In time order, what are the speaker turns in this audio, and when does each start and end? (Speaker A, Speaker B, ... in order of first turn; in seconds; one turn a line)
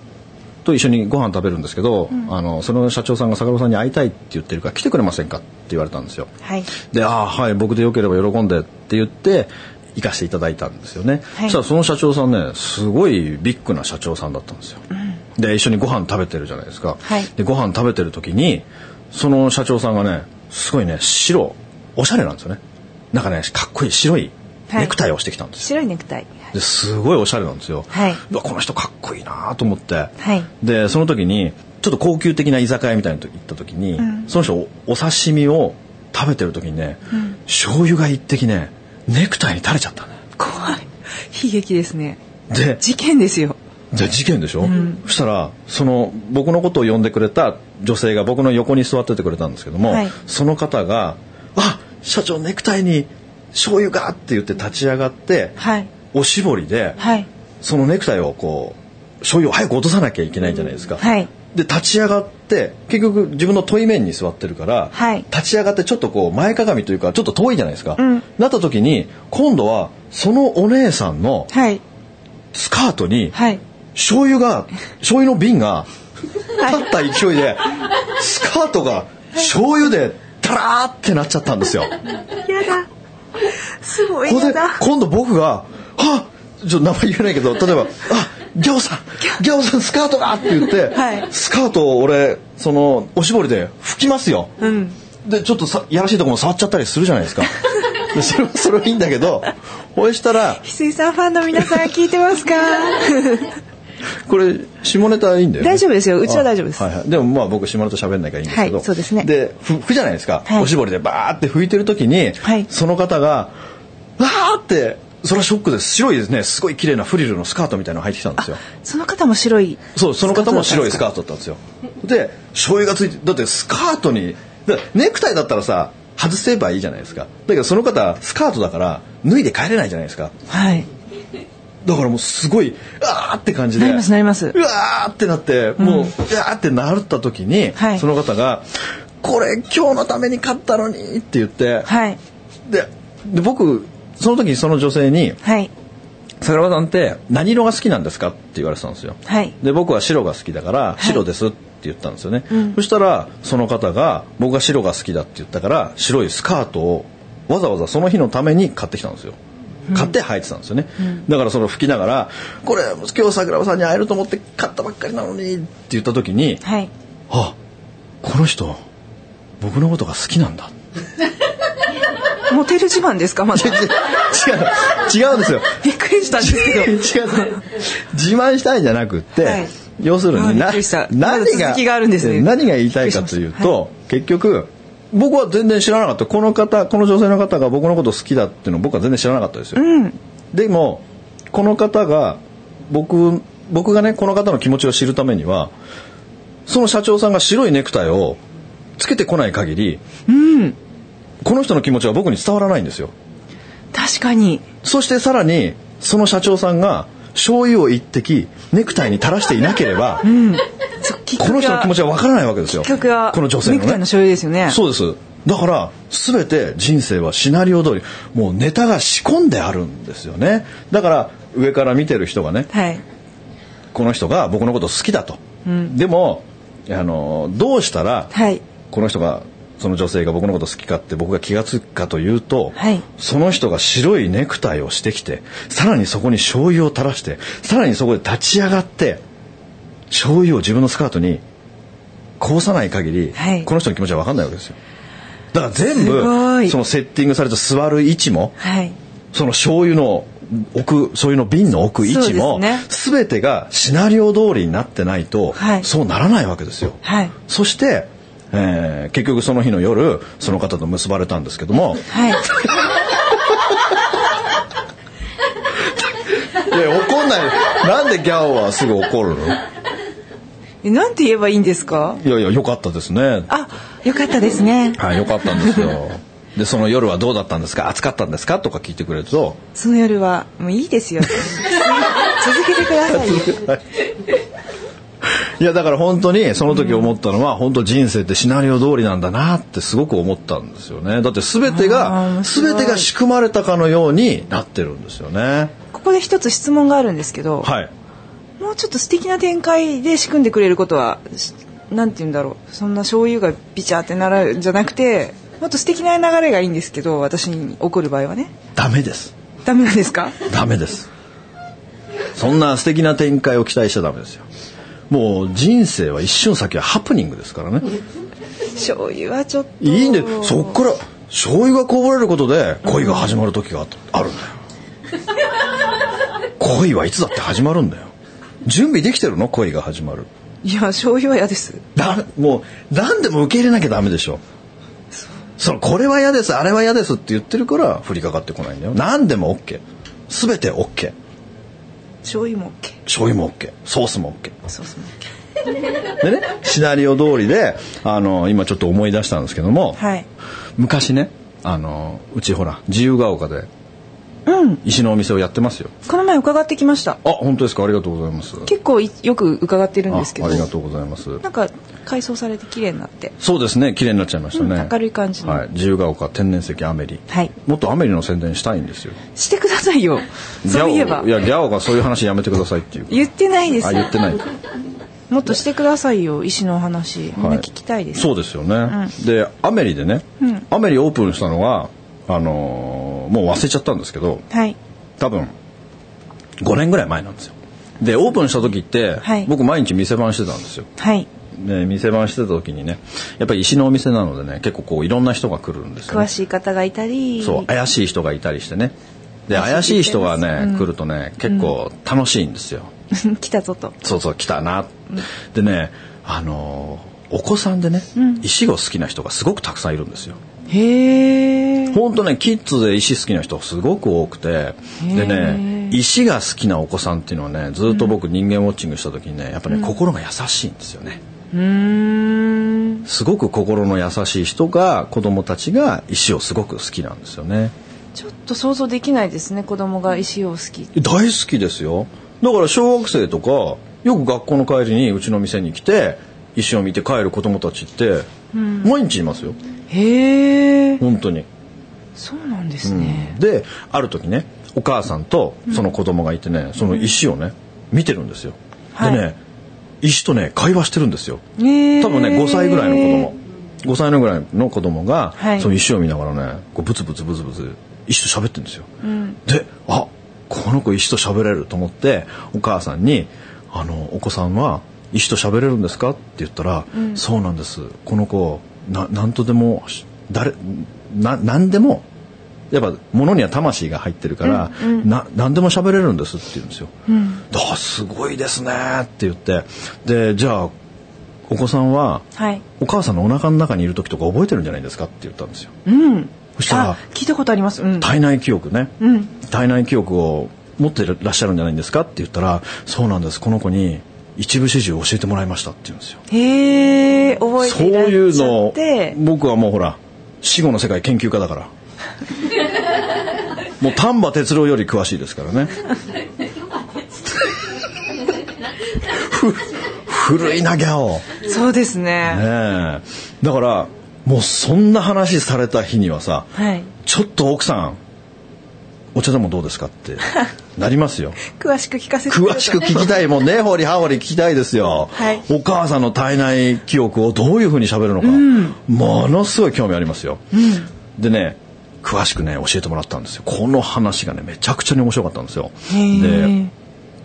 Speaker A: 0.6-6.3
Speaker B: 6.4-6.7
Speaker A: 6.8-14.8
Speaker A: 15.3-22.6
Speaker A: 23.1-25.7
Speaker B: 24.7-24.9
Speaker B: 25.6-26.4
Speaker A: 26.5-40.1
Speaker B: 27.9-28.2
Speaker B: 30.2-30.5
Speaker B: 34.0-34.3
Speaker B: 40.4-42.2
Speaker A: 42.5-42.8
Speaker B: 42.8-43.6
Speaker A: 43.9-55.6
Speaker B: 44.6-45.0
Speaker B: 49.9-50.1
Speaker B: 55.6-55.9
Speaker A: 56.1-57.0
Speaker B: 57.0-57.3
Speaker A: 57.6-71.5
Speaker B: 61.0-61.3
Speaker B: 64.9-65.3
Speaker B: 68.0-68.2
Speaker B: 71.5-71.8
Speaker A: 72.5-73.4
Speaker B: 73.3-73.6
Speaker A: 73.9-75.9
Speaker A: 76.6-81.9
Speaker B: 82.3-82.9
Speaker B: 83.4-84.8
Speaker A: 84.2-94.5
Speaker B: 90.9-91.3
Speaker B: 94.6-95.0
Speaker A: 95.2-100.6
Speaker B: 100.6-103.6
Speaker A: 104.3-113.5
Speaker B: 105.6-106.8
Speaker B: 108.5-109.3
Speaker B: 112.4-112.7
Speaker A: 114.2-118.6
Speaker B: 118.4-121.0
Speaker A: 119.9-130.3
Speaker B: 130.5-130.9
Speaker A: 131.8-138.6
Speaker B: 133.8-134.6
Speaker B: 135.8-136.1
Speaker B: 137.8-138.0
Speaker A: 139.2-141.9
Speaker B: 141.8-142.2
Speaker A: 142.7-145.4
Speaker B: 145.4-145.7
Speaker A: 146.4-159.4
Speaker B: 149.2-149.6
Speaker B: 152.5-152.8
Speaker B: 159.9-160.1
Speaker A: 159.9-166.6
Speaker B: 166.6-166.9
Speaker A: 167.3-167.6
Speaker A: 168.2-168.8
Speaker A: 169.6-170.7
Speaker B: 172.5-173.9
Speaker A: 173.5-175.8
Speaker B: 175.7-177.6
Speaker A: 176.4-189.8
Speaker B: 179.4-179.7
Speaker B: 180.3-183.7
Speaker B: 189.7-190.2
Speaker A: 190.5-195.7
Speaker A: 196.7-198.4
Speaker A: 199.0-200.0
Speaker B: 200.3-200.8
Speaker A: 201.4-203.1
Speaker B: 203.9-204.7
Speaker A: 204.8-210.3
Speaker B: 210.2-211.9
Speaker A: 211.4-214.0
Speaker B: 212.8-214.8
Speaker A: 214.7-222.7
Speaker B: 222.7-223.0
Speaker A: 223.9-228.3
Speaker B: 225.7-225.9
Speaker B: 228.3-228.6
Speaker A: 228.9-239.2
Speaker B: 232.8-233.0
Speaker A: 240.1-241.4
Speaker A: 242.4-244.8
Speaker B: 243.3-243.7
Speaker A: 245.5-248.6
Speaker B: 245.9-246.8
Speaker B: 248.6-249.0
Speaker A: 249.3-262.1
Speaker B: 252.0-252.8
Speaker B: 255.6-255.9
Speaker B: 257.0-257.3
Speaker B: 262.1-262.4
Speaker A: 266.5-269.6
Speaker B: 270.8-272.2
Speaker A: 272.2-273.5
Speaker B: 273.5-275.9
Speaker A: 275.0-279.6
Speaker B: 279.7-283.5
Speaker A: 283.1-283.8
Speaker A: 285.2-295.7
Speaker B: 286.7-287.1
Speaker B: 291.6-293.1
Speaker B: 295.9-297.7
Speaker A: 297.6-297.9
Speaker B: 298.6-308.5
Speaker A: 308.8-309.3
Speaker B: 309.6-310.4
Speaker A: 310.4-311.1
Speaker A: 312.4-314.4
Speaker A: 315.1-317.9
Speaker B: 318.7-320.8
Speaker A: 319.8-324.6
Speaker B: 322.8-323.3
Speaker A: 326.6-328.1
Speaker A: 328.6-330.3
Speaker B: 330.6-331.8
Speaker A: 331.9-334.4
Speaker A: 335.6-341.1
Speaker B: 342.2-343.0
Speaker A: 343.1-344.6
Speaker B: 344.7-345.3
Speaker A: 346.2-350.0
Speaker B: 350.0-350.2
Speaker A: 350.8-353.7
Speaker B: 354.4-354.8
Speaker A: 354.8-355.9
Speaker B: 356.0-357.2
Speaker A: 357.2-358.7
Speaker B: 358.6-360.7
Speaker A: 360.1-361.4
Speaker B: 361.4-363.3
Speaker A: 363.4-369.2
Speaker B: 364.5-365.6
Speaker B: 369.3-371.3
Speaker A: 370.6-373.3
Speaker B: 373.1-374.1
Speaker A: 373.8-374.4
Speaker B: 375.3-378.3
Speaker A: 377.4-384.4
Speaker B: 384.5-384.8
Speaker A: 385.2-385.5
Speaker A: 386.6-390.9
Speaker B: 389.2-389.5
Speaker B: 391.0-391.3
Speaker A: 391.5-396.3
Speaker B: 396.1-397.7
Speaker A: 397.4-398.9
Speaker A: 399.5-402.9
Speaker B: 399.5-400.9
Speaker B: 401.4-401.7
Speaker B: 403.1-404.0
Speaker A: 404.0-410.4
Speaker B: 408.1-408.4
Speaker B: 410.7-412.0
Speaker A: 411.9-421.2
Speaker B: 415.0-416.0
Speaker B: 419.7-419.9
Speaker B: 421.5-423.0
Speaker A: 423.0-427.7
Speaker B: 428.1-430.9
Speaker A: 430.9-438.3
Speaker B: 438.5-438.9
Speaker A: 438.8-439.6
Speaker B: 439.9-441.0
Speaker A: 441.0-441.4
Speaker B: 442.1-443.4
Speaker A: 442.8-449.4
Speaker B: 448.9-449.2
Speaker A: 450.0-451.4
Speaker B: 451.6-453.3
Speaker A: 452.0-458.9
Speaker B: 455.4-455.7
Speaker B: 459.0-459.4
Speaker A: 459.4-472.0
Speaker B: 466.9-467.2
Speaker A: 472.7-476.9
Speaker B: 474.4-475.1
Speaker B: 477.1-477.4
Speaker A: 477.5-480.7
Speaker A: 481.5-482.2
Speaker B: 482.4-482.6
Speaker A: 482.8-485.7
Speaker B: 485.8-488.1
Speaker A: 486.6-487.0
Speaker A: 488.0-496.2
Speaker B: 489.0-489.3
Speaker B: 496.3-499.2
Speaker A: 497.6-501.7
Speaker A: 503.8-505.8
Speaker A: 509.0-511.4
Speaker B: 511.4-512.4
Speaker A: 512.2-518.0
Speaker B: 516.5-516.9
Speaker A: 519.1-521.4
Speaker B: 521.4-523.2
Speaker A: 522.3-530.4
Speaker B: 525.1-525.4
Speaker B: 528.2-528.8
Speaker B: 530.5-530.9
Speaker A: 531.1-536.5
Speaker B: 535.9-536.7